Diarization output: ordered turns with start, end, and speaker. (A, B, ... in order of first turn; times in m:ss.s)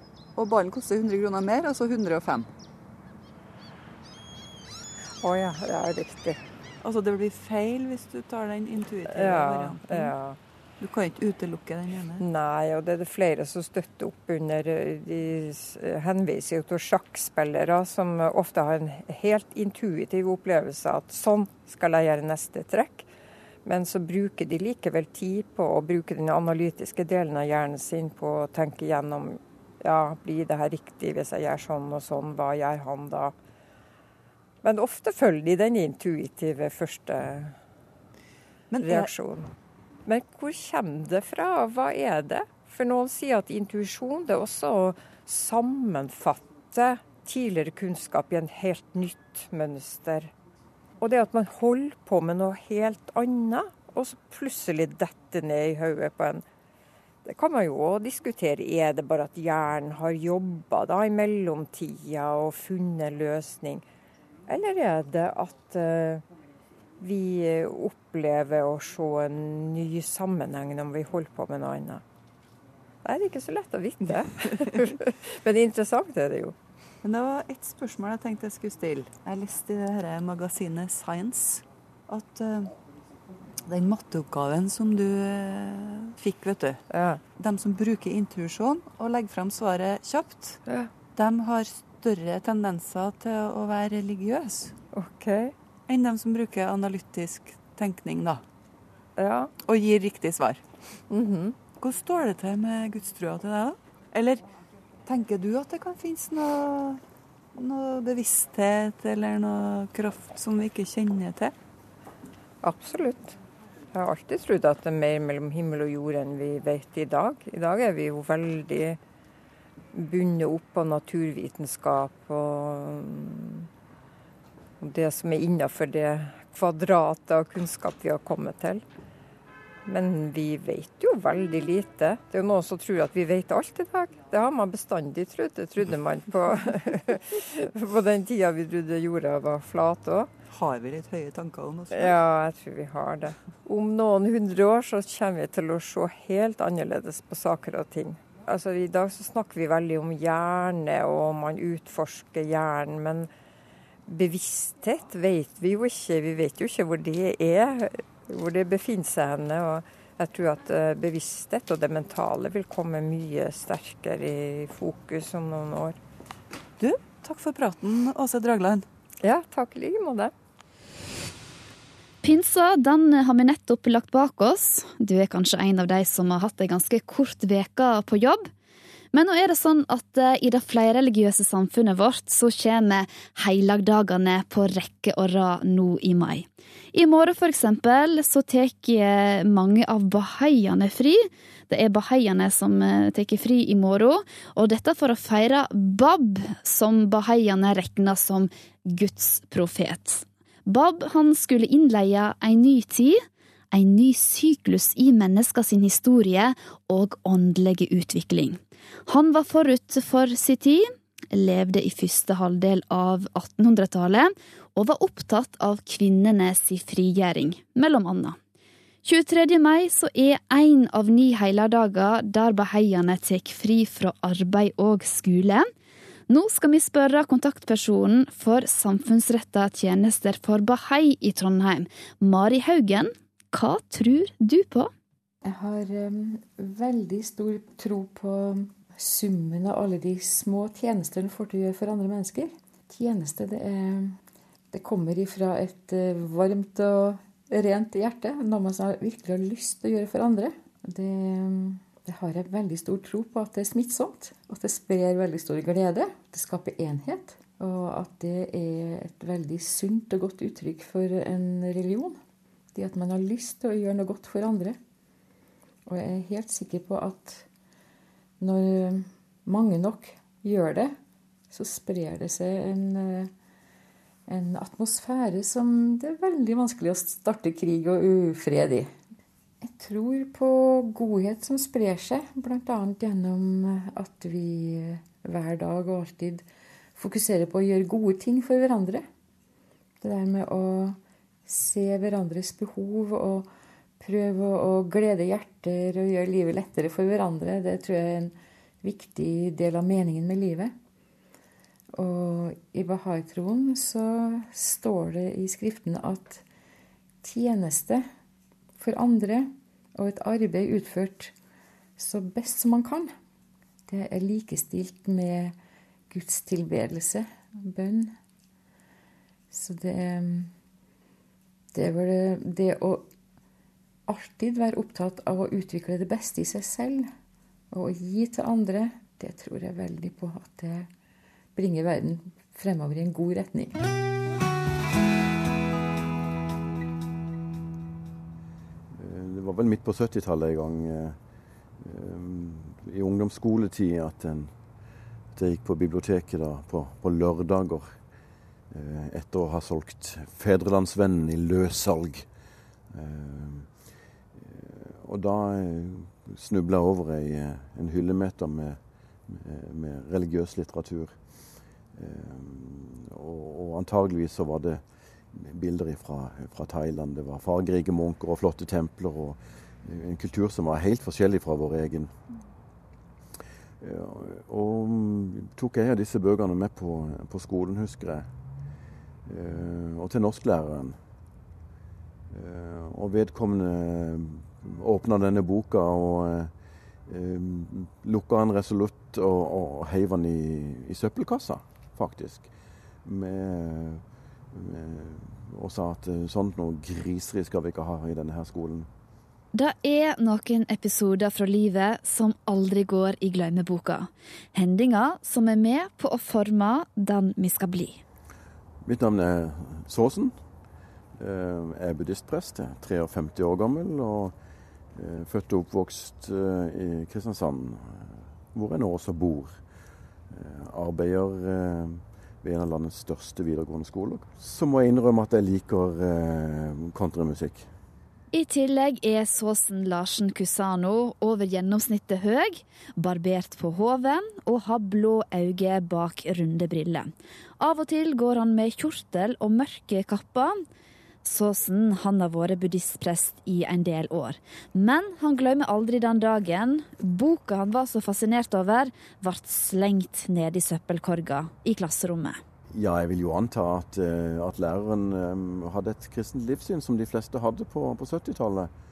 0:00.4-0:02.5 A
0:05.2-0:06.4 B
0:06.8-0:10.2 A
0:09.1-0:10.4 B
0:10.8-0:12.2 A
0:12.2-0:23.1 B
0:23.6-0:33.4 B
0:34.6-0:37.6 B
0:38.7-0:39.1 A
0:38.8-0:39.5 B
0:40.1-0:50.3 B
0:51.0-0:56.4 B
0:57.2-1:03.8 B
1:04.5-1:06.2 B
1:07.0-1:12.0 B
1:13.0-1:16.6 B
1:14.5-1:14.8 A
1:17.0-1:22.7 A
1:23.7-1:26.8 A
1:26.9-1:27.2 B
1:27.4-1:34.8 A
1:30.7-1:30.9 B
1:34.9-1:35.5 B
1:35.9-1:38.4 A
1:39.2-1:39.5 B
1:39.6-1:40.6 A
1:41.1-1:41.6 B
1:41.8-1:44.5 A
1:45.0-1:47.0 A
1:47.5-1:51.5 A
1:52.6-1:53.4 B
1:53.9-1:59.0 B
1:59.9-2:03.7 B
2:04.8-2:08.8 B
2:09.9-2:20.3 B
2:20.5-2:22.2 A
2:21.9-2:33.3 B
2:34.1-2:46.0 B
2:46.8-2:48.9 A
2:49.2-2:50.3 B
2:52.2-2:58.5 C
2:59.1-3:38.4 C
3:39.0-3:45.7 C
3:46.3-3:54.9 C
3:55.4-4:04.2 D
4:04.7-4:22.2 D
4:22.7-4:24.8 D
4:25.9-4:27.5 D
4:28.4-4:31.0 D
4:31.5-4:33.3 D
4:34.3-4:38.9 D
4:39.6-4:49.1 D
4:50.0-4:53.5 D
4:54.0-5:00.8 D
5:01.9-5:06.4 D
5:07.2-5:08.1 D
5:08.8-5:11.3 D
5:12.0-5:13.1 D
5:13.9-5:15.6 D
5:16.1-5:18.2 D
5:19.5-5:20.5 D
5:21.7-5:23.1 D
5:24.1-5:27.1 D
5:27.7-5:30.9 D
5:31.6-5:33.8 D
5:38.9-5:41.2 E
5:41.8-5:44.5 E
5:45.3-5:48.0 E
5:48.7-5:52.3 E
5:52.9-5:53.7 E
5:54.3-6:01.2 E
6:01.9-6:04.8 E
6:05.3-6:12.1 E
6:13.8-6:18.3 E
6:19.2-6:21.0 E
6:22.3-6:26.5 E
6:27.1-6:32.5 E
6:33.0-6:38.9 E
6:39.5-6:48.0 C
6:48.8-6:50.4 E
6:51.2-6:54.4 E
6:54.9-6:59.6 E
7:00.3-7:07.7 E
7:08.3-7:20.6 C
7:21.2-7:32.4 C
7:32.7-7:38.7 E